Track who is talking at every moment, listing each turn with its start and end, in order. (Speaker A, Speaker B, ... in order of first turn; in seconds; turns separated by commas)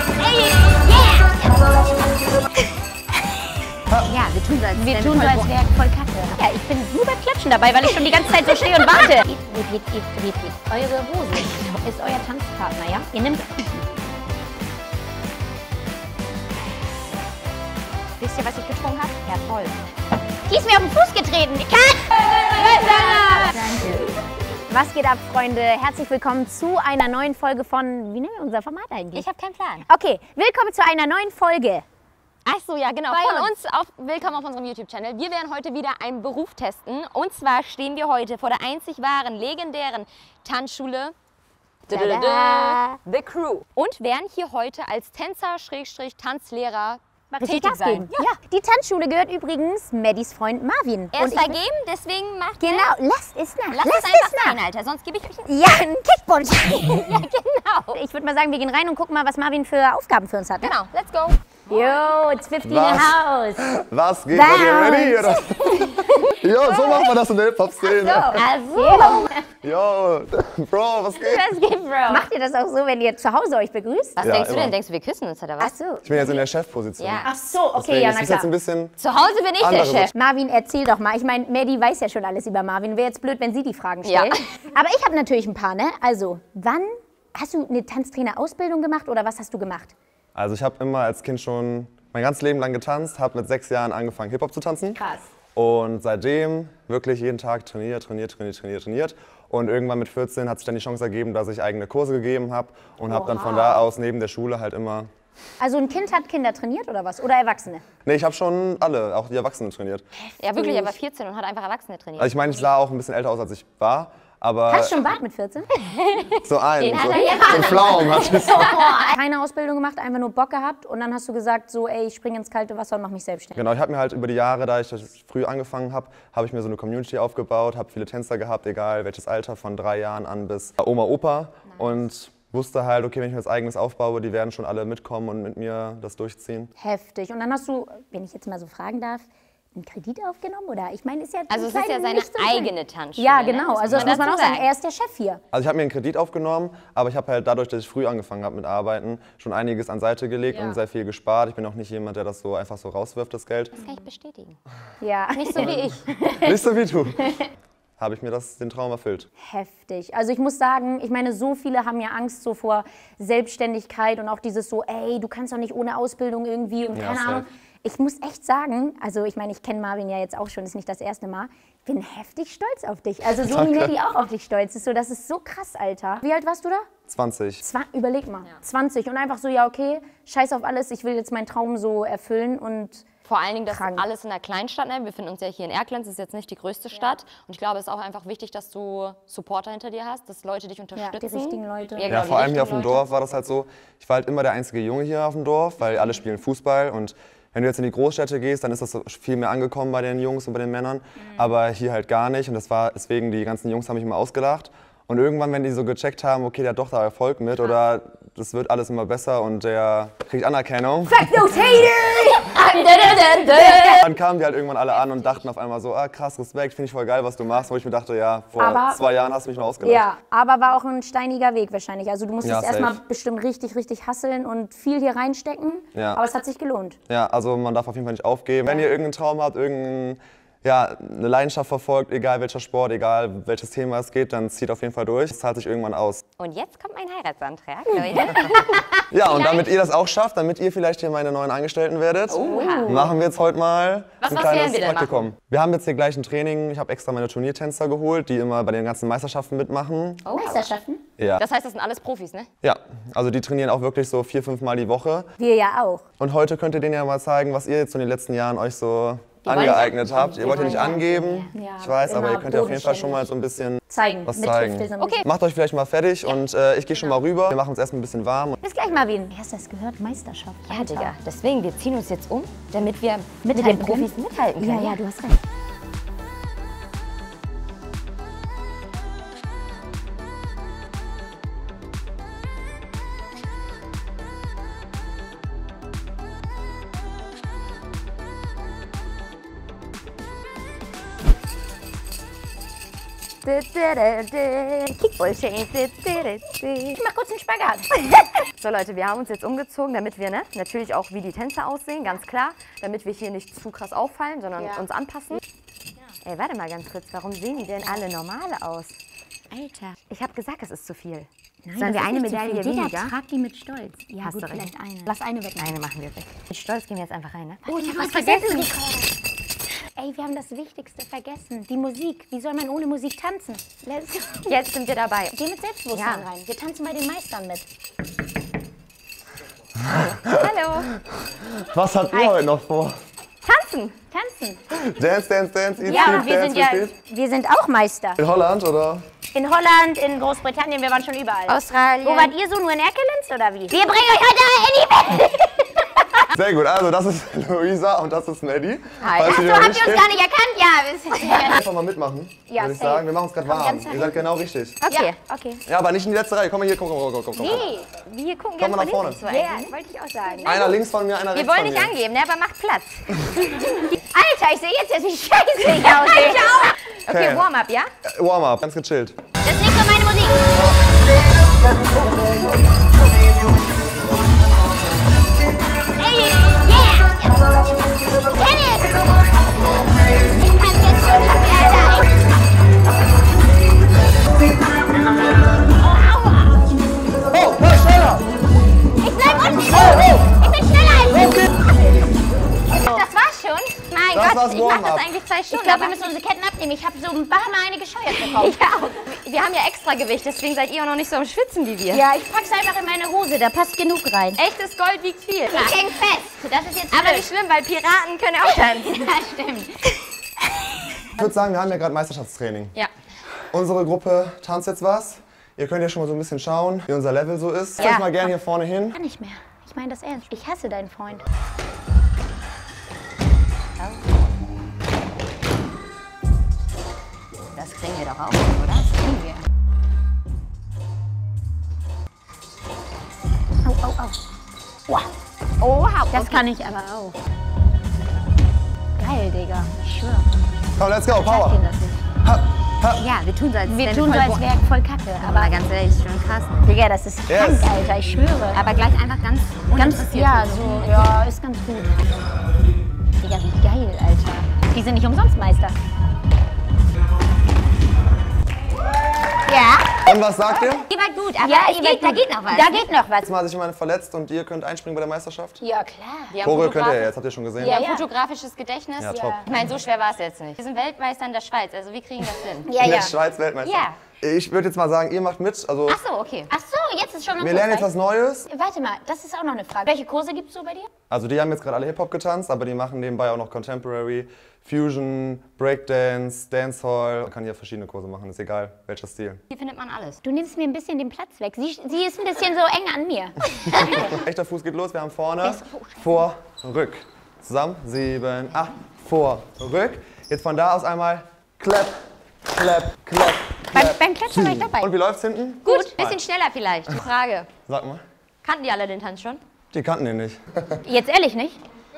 Speaker A: 0.2-1.8, Speaker B: 4.0-5.5, Speaker A: 4.8-13.8, Speaker B: 8.6-8.9, Speaker B: 18.2-19.8, Speaker A: 20.5-23.6, Speaker B: 23.5-24.1, Speaker A: 24.7-29.2, Speaker B: 29.1-29.8, Speaker A: 29.9-31.8, Speaker B: 32.4-41.1, Speaker A: 33.1-33.5, Speaker A: 41.9-42.9, Speaker B: 41.9-48.4, Speaker A: 47.3-51.6, Speaker B: 51.1-52.9, Speaker A: 52.6-54.6, Speaker B: 53.7-55.5, Speaker A: 55.5-57.2, Speaker B: 56.8-58.0, Speaker A: 57.9-60.7, Speaker B: 60.6-61.9, Speaker A: 61.7-63.6, Speaker C: 62.6-68.5, Speaker A: 64.3-66.3, Speaker B: 66.0-67.1, Speaker B: 67.8-69.3, Speaker A: 68.7-69.5, Speaker C: 69.6-71.5, Speaker A: 71.3-74.2, Speaker B: 71.5-72.2, Speaker B: 74.2-75.7, Speaker C: 74.2-74.8, Speaker A: 75.6-76.2, Speaker C: 76.0-78.9, Speaker B: 77.0-77.3, Speaker A: 77.2-78.5, Speaker B: 79.0-80.1, Speaker C: 79.6-80.1, Speaker A: 80.1-89.9, Speaker B: 84.0-84.4, Speaker C: 90.3-95.0, Speaker A: 94.9-95.3, Speaker C: 95.5-105.1, Speaker A: 103.1-103.8, Speaker A: 105.6-107.8, Speaker C: 108.0-110.0, Speaker A: 110.1-111.0, Speaker B: 110.4-112.4, Speaker C: 112.2-115.0, Speaker A: 114.7-115.7, Speaker B: 116.0-119.1, Speaker C: 116.4-118.7, Speaker A: 117.4-123.6, Speaker C: 123.5-136.7, Speaker A: 136.8-145.4, Speaker B: 141.5-144.7, Speaker C: 143.9-144.2, Speaker C: 145.5-153.7, Speaker B: 150.5-150.8, Speaker B: 153.8-154.6, Speaker A: 155.0-156.6, Speaker B: 155.3-156.1, Speaker C: 156.4-157.4, Speaker C: 158.0-159.3, Speaker A: 159.4-176.9, Speaker C: 166.9-167.4, Speaker C: 173.4-173.9, Speaker C: 177.1-177.6, Speaker A: 177.6-183.0, Speaker B: 183.2-193.0, Speaker A: 183.7-184.1, Speaker A: 190.9-192.6, Speaker C: 192.1-211.2, Speaker A: 211.1-214.1, Speaker B: 212.6-214.0, Speaker C: 214.0-220.1, Speaker A: 218.6-219.0, Speaker A: 219.8-227.0, Speaker C: 222.4-223.0, Speaker C: 225.9-226.2, Speaker C: 227.1-236.2, Speaker B: 236.4-239.7, Speaker C: 239.1-250.6, Speaker B: 242.3-243.0, Speaker A: 242.3-243.1, Speaker B: 244.2-245.2, Speaker B: 250.2-250.7, Speaker A: 250.3-251.0, Speaker C: 251.2-251.4, Speaker B: 251.4-252.5, Speaker C: 252.6-255.3, Speaker A: 255.4-256.0, Speaker C: 256.2-268.6, Speaker B: 259.4-261.5, Speaker A: 260.5-260.9, Speaker A: 261.5-263.3, Speaker A: 263.9-265.2, Speaker B: 265.0-265.3, Speaker A: 268.6-271.1, Speaker B: 270.7-275.0, Speaker A: 273.4-275.4, Speaker B: 293.4-297.0, Speaker A: 296.9-298.1, Speaker B: 298.4-305.4, Speaker A: 304.6-304.8, Speaker B: 306.2-309.0, Speaker B: 309.5-313.1, Speaker A: 311.6-315.7, Speaker B: 314.2-314.7, Speaker B: 315.6-318.7, Speaker A: 317.6-319.2, Speaker A: 320.0-324.5, Speaker B: 324.5-325.4, Speaker A: 325.3-327.6, Speaker B: 325.9-326.2, Speaker C: 329.8-330.5, Speaker B: 329.9-330.9, Speaker C: 331.1-332.9, Speaker A: 332.1-332.4, Speaker B: 333.4-333.9, Speaker A: 334.1-334.6, Speaker C: 334.8-336.9, Speaker A: 335.8-338.2, Speaker B: 335.9-336.2, Speaker C: 338.2-339.0, Speaker A: 339.3-346.3, Speaker B: 341.5-342.3, Speaker C: 346.3-350.1, Speaker B: 349.0-349.7, Speaker A: 349.2-351.6, Speaker B: 351.1-351.5, Speaker C: 351.4-354.8, Speaker A: 352.5-354.2, Speaker B: 354.8-355.1, Speaker A: 354.9-355.6, Speaker C: 355.6-357.6, Speaker A: 357.4-357.9, Speaker B: 357.5-360.8, Speaker C: 358.6-359.2, Speaker A: 359.2-360.5, Speaker C: 360.4-361.9, Speaker B: 361.3-363.9, Speaker A: 364.1-366.7, Speaker B: 365.6-367.9, Speaker C: 367.1-367.5, Speaker C: 368.0-369.2, Speaker A: 369.4-370.5, Speaker A: 375.9-377.4, Speaker A: 378.3-379.1, Speaker A: 380.3-382.1, Speaker A: 385.8-386.6, Speaker C: 387.3-388.2, Speaker A: 389.0-391.5, Speaker A: 392.7-393.1, Speaker B: 392.7-396.1, Speaker C: 394.1-395.1, Speaker A: 395.5-398.6, Speaker B: 398.1-402.0, Speaker A: 401.9-404.4, Speaker B: 404.4-405.9, Speaker A: 405.5-407.3, Speaker B: 406.9-409.1, Speaker A: 408.5-409.8, Speaker A: 410.4-411.4, Speaker C: 411.2-412.7, Speaker C: 413.5-418.9, Speaker A: 417.8-418.2, Speaker A: 418.9-421.2, Speaker B: 427.5-429.4, Speaker A: 433.6-434.2, Speaker B: 435.6-436.4, Speaker A: 436.1-437.2, Speaker A: 438.9-440.3, Speaker C: 440.7-441.6, Speaker A: 441.2-442.0, Speaker C: 442.2-443.0, Speaker B: 442.9-444.4, Speaker A: 443.7-445.5, Speaker B: 445.2-446.7, Speaker A: 446.6-448.6, Speaker C: 447.3-447.7, Speaker B: 448.5-451.1, Speaker A: 449.7-452.1, Speaker A: 453.2-455.8, Speaker A: 459.4-460.0, Speaker C: 460.0-460.9, Speaker B: 460.8-462.9, Speaker A: 461.4-463.3, Speaker C: 463.2-465.6, Speaker A: 465.6-466.4, Speaker B: 466.3-472.7, Speaker C: 466.4-467.8, Speaker A: 467.6-468.1, Speaker C: 469.0-469.5, Speaker A: 469.1-469.5, Speaker A: 472.7-473.1, Speaker C: 472.8-476.0, Speaker B: 473.6-473.9, Speaker B: 475.9-476.5, Speaker A: 476.5-477.9, Speaker C: 477.4-478.5, Speaker A: 478.4-480.9, Speaker C: 481.1-489.4, Speaker B: 489.5-490.2, Speaker A: 490.2-494.1, Speaker C: 493.6-506.2, Speaker A: 495.4-496.3, Speaker A: 503.7-504.9, Speaker B: 505.6-507.5, Speaker C: 507.7-508.0, Speaker B: 508.4-509.4, Speaker C: 509.7-510.8, Speaker A: 510.8-511.6